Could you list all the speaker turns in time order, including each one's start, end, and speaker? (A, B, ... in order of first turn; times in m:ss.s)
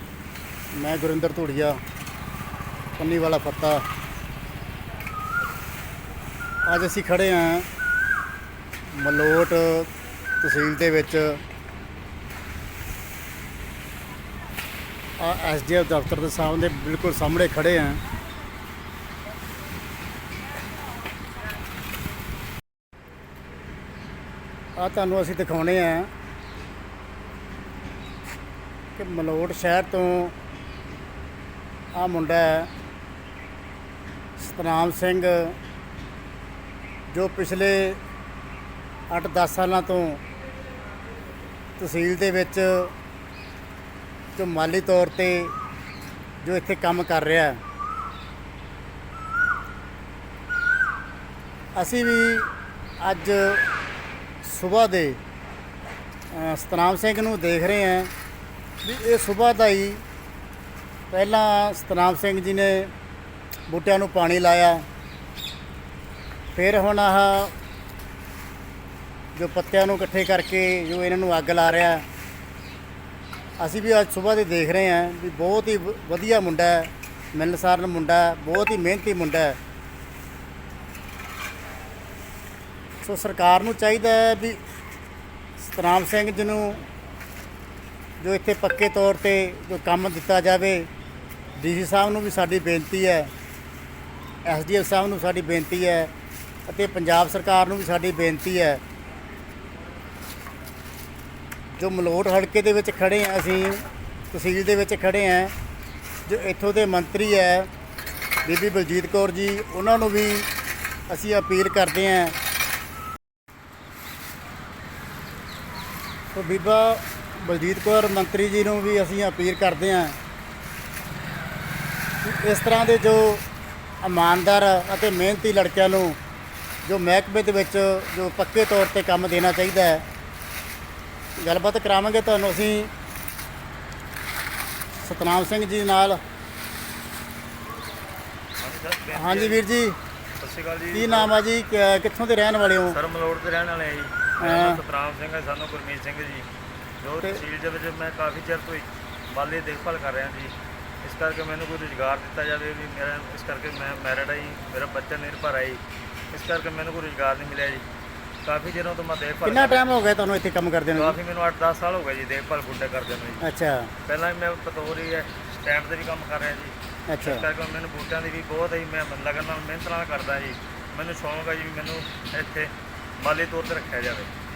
0:00.7-0:01.8 A
0:03.0-0:03.8 A
0:06.6-0:07.7 A
0:08.9-0:09.9 A
0:10.4-0:11.4 A
0:15.2-0:18.0 A
0:24.8-0:26.1 A
0:29.0-0:30.3 A
0:31.9-0:32.7 A
0:34.4-0:35.6 A
0:37.1-0:38.0 A
0:39.1-0:40.2 A
0:41.8-0:42.9 A
0:44.3-0:45.5 A
0:46.4-0:47.6 A
0:51.7-0:52.5 A
0:53.0-0:53.6 A
0:54.4-0:55.2 A
0:56.3-0:58.1 A
0:58.8-1:00.0 A
1:01.1-1:02.9 A
1:03.7-1:04.8 A
1:06.5-1:07.5 A
1:09.3-1:12.0 A
1:13.6-1:19.6 A
1:23.0-1:24.6 A
1:25.6-1:26.8 A
1:28.2-1:30.9 A
1:31.6-1:33.3 A
1:34.4-1:36.1 A
1:36.7-1:38.8 A
1:41.7-1:45.5 A
1:46.3-1:47.7 A
1:48.4-1:50.5 A
1:51.1-1:52.3 A
1:56.3-2:00.2 A
2:02.2-2:03.4 A
2:04.0-2:06.2 A
2:06.8-2:10.0 A
2:11.4-2:12.9 A
2:15.0-2:16.2 A
2:18.6-2:19.6 B
2:19.1-2:20.0 A
2:20.4-2:21.3 B
2:20.9-2:23.0 A
2:22.9-2:26.5 B
2:24.4-2:24.8 A
2:27.0-2:37.8 B
2:38.4-2:39.9 B
2:39.4-2:41.2 A
2:40.9-2:43.4 B
2:43.4-2:43.9 A
2:44.0-2:54.3 B
2:47.1-2:47.4 A